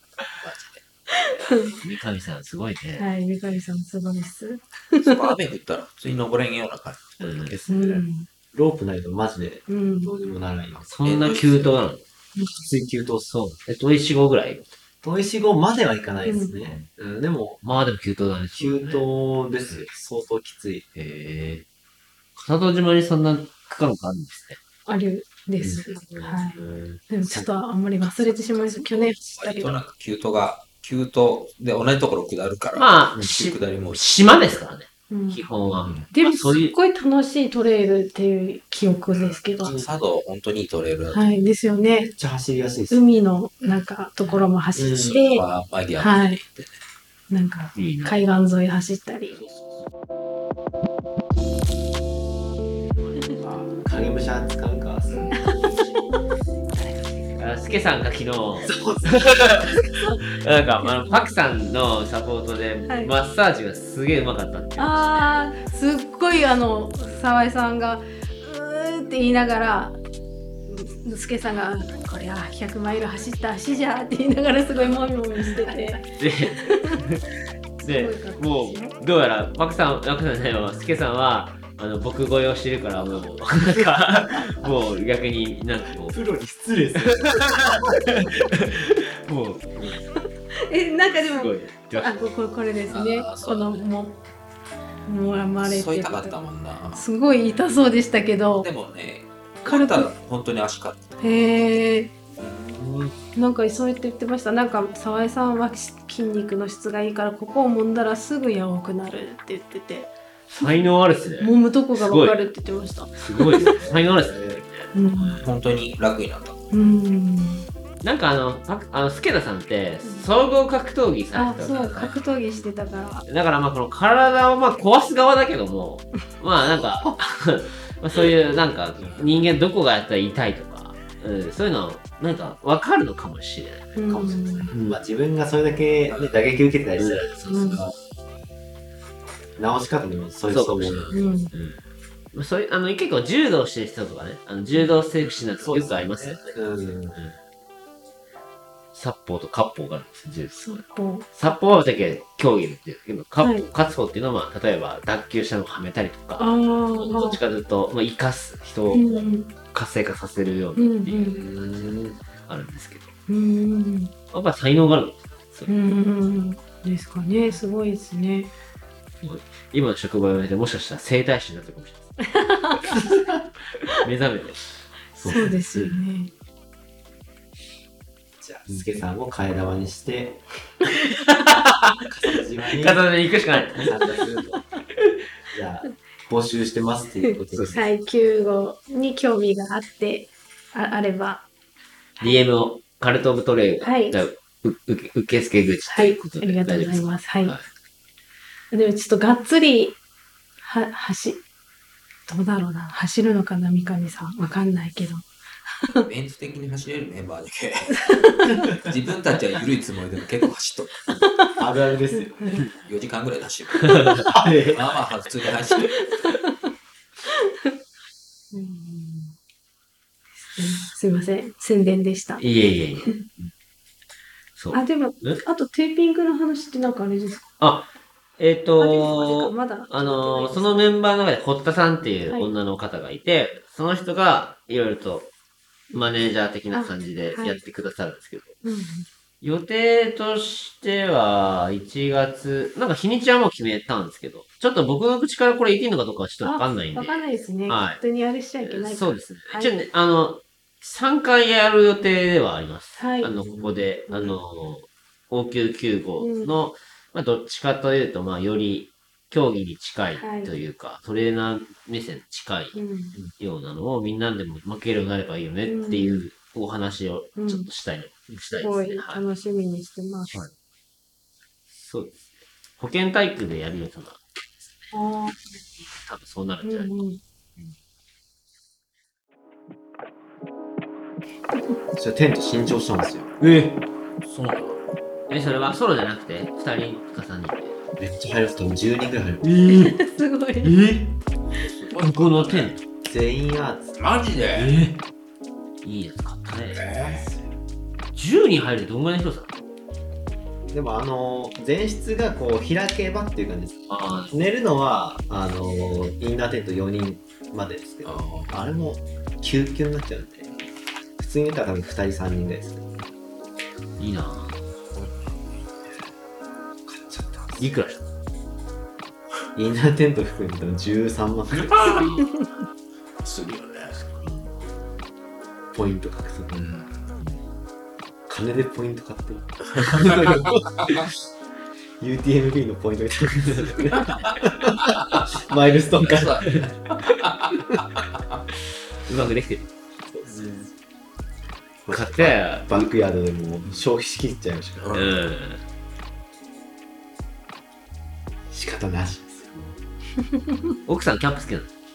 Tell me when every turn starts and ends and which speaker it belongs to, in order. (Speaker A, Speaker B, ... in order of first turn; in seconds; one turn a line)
Speaker A: 0.4-1.2
Speaker B: 1.3-1.8
Speaker C: 1.8-3.0
Speaker B: 3.0-5.3
Speaker A: 5.0-7.6
Speaker C: 7.2-7.6
Speaker D: 7.5-10.9
Speaker B: 7.7-8.3
Speaker B: 9.7-10.2
Speaker C: 10.8-12.0
Speaker A: 11.0-11.8
Speaker B: 12.3-12.6
Speaker D: 12.6-13.3
Speaker C: 13.2-14.7
Speaker D: 15.0-17.6
Speaker B: 16.2-16.6
Speaker C: 17.6-19.0
Speaker D: 18.5-20.8
Speaker C: 20.9-21.6
Speaker C: 22.4-24.6
Speaker B: 24.9-26.6
Speaker C: 25.9-27.0
Speaker B: 27.1-29.8
Speaker A: 28.0-34.0
Speaker C: 32.7-36.7
Speaker B: 35.1-35.4
Speaker A: 35.7-36.1
Speaker B: 36.1-39.7
Speaker A: 39.1-41.4
Speaker D: 39.6-39.9
Speaker B: 41.1-42.1
Speaker D: 42.0-43.0
Speaker B: 42.9-45.4
Speaker D: 44.8-45.2
Speaker A: 44.8-46.8
Speaker B: 46.0-46.4
Speaker B: 47.3-49.4
Speaker C: 47.7-48.2
Speaker D: 53.4-55.3
Speaker A: 55.1-55.3
Speaker B: 55.3-55.7
Speaker C: 56.7-65.3
Speaker D: 58.6-59.8
Speaker B: 60.8-61.4
Speaker B: 62.9-63.1
Speaker B: 64.8-70.0
Speaker B: 70.7-77.0
Speaker C: 76.2-77.2
Speaker C: 77.8-86.2
Speaker B: 77.8-79.0
Speaker D: 84.4-84.7
Speaker D: 86.0-88.2
Speaker C: 87.3-90.0
Speaker B: 90.6-94.2
Speaker C: 91.2-92.2
Speaker A: 92.9-93.8
Speaker B: 95.0-96.4
Speaker A: 95.6-97.0
Speaker B: 96.9-98.7
Speaker A: 98.6-101.1
Speaker B: 99.6-100.1
Speaker B: 101.2-102.1
Speaker C: 102.7-103.1
Speaker B: 103.3-110.9
Speaker C: 110.5-112.4
Speaker B: 111.4-113.8
Speaker C: 113.2-115.3
Speaker D: 113.6-114.6
Speaker B: 114.9-115.4
Speaker A: 115.4-116.6
Speaker B: 116.7-117.7
Speaker C: 118.0-122.1
Speaker B: 121.3-123.2
Speaker A: 121.7-122.2
Speaker C: 123.2-133.9
Speaker D: 126.9-127.2
Speaker A: 129.0-129.4
Speaker B: 133.9-134.7
Speaker D: 134.1-137.3
Speaker C: 134.7-134.9
Speaker A: 136.1-136.4
Speaker C: 137.0-137.8
Speaker B: 137.4-137.8
Speaker D: 139.6-141.1
Speaker C: 140.5-141.8
Speaker B: 141.1-141.5
Speaker C: 142.3-146.6
Speaker D: 145.6-147.2
Speaker C: 148.9-163.1
Speaker B: 150.6-151.3
Speaker B: 153.4-153.7
Speaker B: 156.4-157.4
Speaker B: 158.9-159.5
Speaker B: 160.8-161.4
Speaker D: 161.6-162.1
Speaker B: 163.3-164.1
Speaker C: 164.3-165.7
Speaker B: 165.7-168.5
Speaker C: 169.2-172.1
Speaker B: 172.3-173.2
Speaker C: 174.0-174.6
Speaker B: 175.2-176.3
Speaker D: 175.2-175.6
Speaker C: 175.3-176.0
Speaker D: 178.4-180.4
Speaker C: 181.1-182.0
Speaker D: 182.1-183.1
Speaker C: 182.7-183.9
Speaker D: 183.8-184.6
Speaker D: 185.5-187.8
Speaker B: 187.2-191.4
Speaker C: 192.2-197.7
Speaker B: 193.8-194.2
Speaker B: 195.9-197.6
Speaker B: 198.7-200.0
Speaker B: 200.6-201.4
Speaker B: 202.3-205.3
Speaker B: 205.8-206.1
Speaker A: 206.1-208.1
Speaker B: 208.0-208.8
Speaker A: 208.8-211.2
Speaker B: 211.1-211.6
Speaker D: 211.6-212.6
Speaker B: 212.1-212.7
Speaker A: 212.8-216.1
Speaker C: 214.0-214.2
Speaker D: 214.3-214.8
Speaker B: 215.7-216.5
Speaker B: 217.3-217.7
Speaker B: 218.5-219.4
Speaker B: 220.4-222.4
Speaker C: 222.4-223.5
Speaker C: 224.6-225.4
Speaker B: 224.7-227.5
Speaker C: 227.6-235.3
Speaker B: 228.8-230.9
Speaker C: 235.9-238.6
Speaker B: 236.7-237.6
Speaker B: 238.6-239.1
Speaker C: 239.4-248.0
Speaker B: 246.4-249.7
Speaker C: 248.6-262.8
Speaker B: 253.0-253.3
Speaker D: 253.4-253.7
Speaker B: 254.1-254.3
Speaker B: 256.2-256.6
Speaker B: 260.2-260.5
Speaker B: 262.7-263.2
Speaker C: 263.3-269.2
Speaker B: 265.6-266.2
Speaker B: 267.4-267.7
Speaker B: 268.6-270.3
Speaker C: 271.7-272.2
Speaker C: 272.8-274.9
Speaker B: 274.9-275.5
Speaker C: 275.8-276.9
Speaker B: 276.6-277.2
Speaker D: 282.0-283.3
Speaker C: 283.4-283.8
Speaker A: 284.2-284.8
Speaker C: 285.3-287.7
Speaker D: 288.0-289.4
Speaker C: 289.4-289.9
Speaker B: 289.6-290.8
Speaker C: 290.6-291.0
Speaker A: 291.6-292.7
Speaker C: 292.0-292.8
Speaker D: 293.0-293.9
Speaker A: 294.0-294.8
Speaker C: 294.5-295.0
Speaker C: 295.8-296.8
Speaker A: 296.7-297.3
Speaker D: 296.9-297.4
Speaker C: 298.1-299.6
Speaker D: 300.7-310.5
Speaker C: 303.9-304.3
Speaker A: 308.0-308.5
Speaker D: 311.2-312.8
Speaker C: 314.0-314.6
Speaker A: 314.9-315.2
Speaker D: 316.9-317.9
Speaker C: 317.6-318.0
Speaker D: 319.6-322.0
Speaker A: 321.5-322.1
Speaker A: 323.2-324.3
Speaker D: 325.7-326.6
Speaker A: 326.5-327.1
Speaker D: 328.3-330.7
Speaker A: 329.8-331.1
Speaker D: 332.0-336.6
Speaker A: 333.9-335.4
Speaker A: 336.0-338.4
Speaker C: 339.0-339.7
Speaker D: 340.1-340.5
Speaker D: 341.8-345.0
Speaker C: 341.9-342.8
Speaker A: 344.8-345.1
Speaker C: 344.9-345.6
Speaker D: 348.5-349.8
Speaker C: 350.9-351.7